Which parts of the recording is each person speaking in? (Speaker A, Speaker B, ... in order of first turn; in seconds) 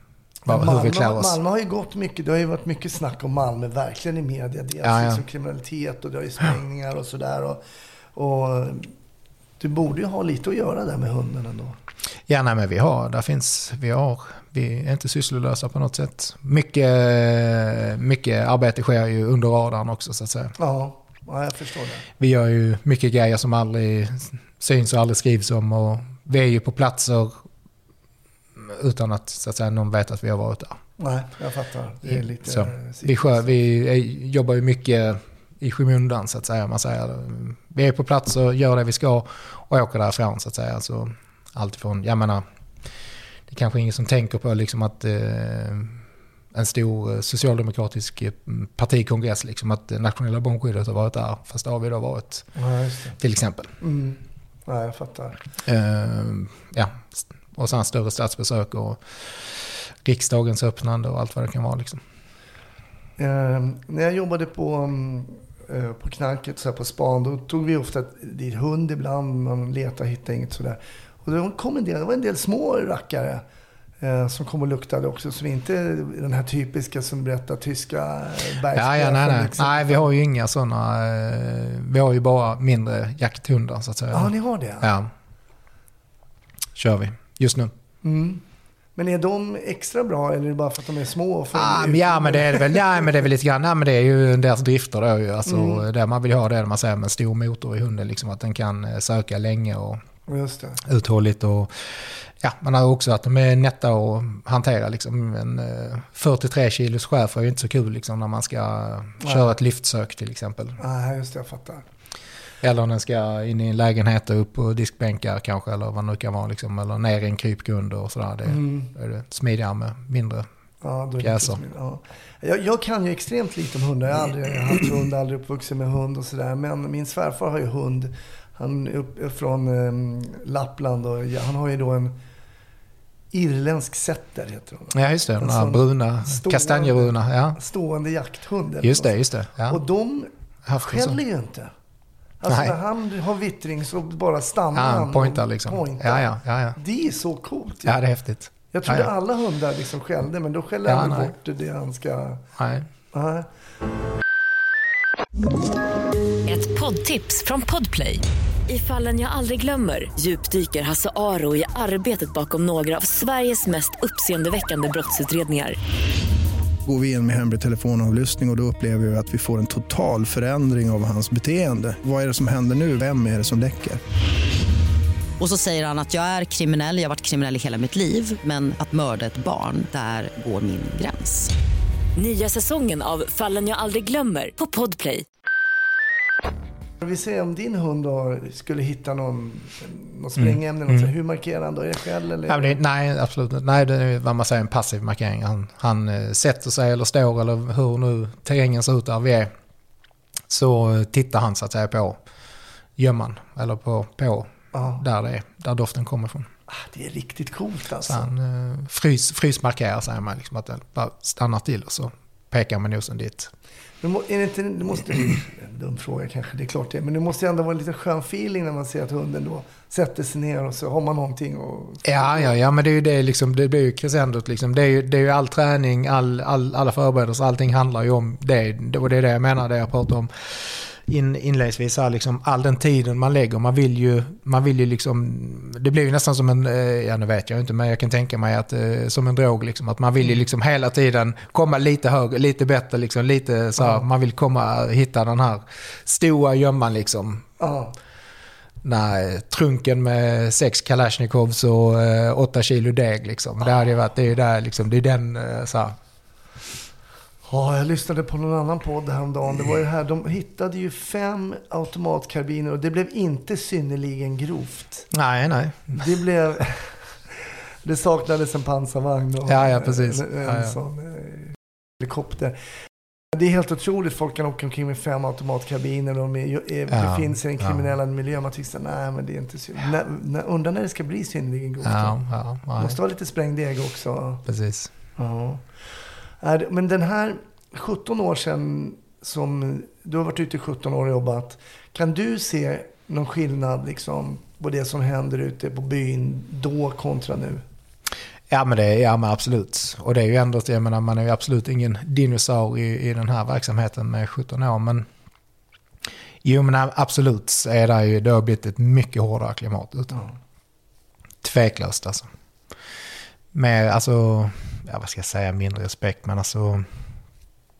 Speaker A: 0.4-1.4, 4.8-5.2, 12.3-20.6, 22.2-27.4, 28.6-30.8, 32.0-42.5, 43.5-46.0, 46.5-52.5, 53.2-53.7, 55.6-62.0, 78.7-85.1, 86.7-87.7, 91.5-100.0, 100.8-110.8, 112.6-120.5, 121.2-121.6, 134.9-137.6, 138.8-139.8, 140.7-141.2, 142.5-142.7, 144.7-146.8, 147.8-149.1, 150.9-151.3, 152.6-152.9, 190.4-191.1, 192.5-199.5, 200.5-202.2, 203.0-206.5, 208.0-213.5, 222.0-247.5, 248.8-255.9, 265.1-266.1, 269.5-270.8, 276.9-277.8, 281.8-283.0, 284.4-284.9, 298.5-305.1, 306.4-310.3, 311.4-312.3, 313.5-316.9
Speaker B: 0.5-7.6, 8.1-8.9, 9.6-11.8, 20.6-22.1, 31.0-33.5, 52.5-53.2, 53.8-55.4, 63.2-73.4, 74.0-80.0, 84.1-84.9, 88.0-88.4, 89.0-93.1, 95.5-95.8, 100.3-100.8, 109.2-109.5, 110.8-111.8, 118.5-118.9, 120.8-132.2, 133.3-141.7, 142.4-148.0, 148.7-152.4, 153.1-153.5, 187.0-192.8, 204.7-205.0, 206.7-208.3, 214.0-222.5, 247.6-247.9, 257.5-265.1, 265.9-272.6, 273.3-282.2, 282.8-284.4, 285.2-297.6
Speaker C: 156.5-165.8, 182.2-185.2
Speaker D: 166.8-174.0
Speaker E: 175.4-181.5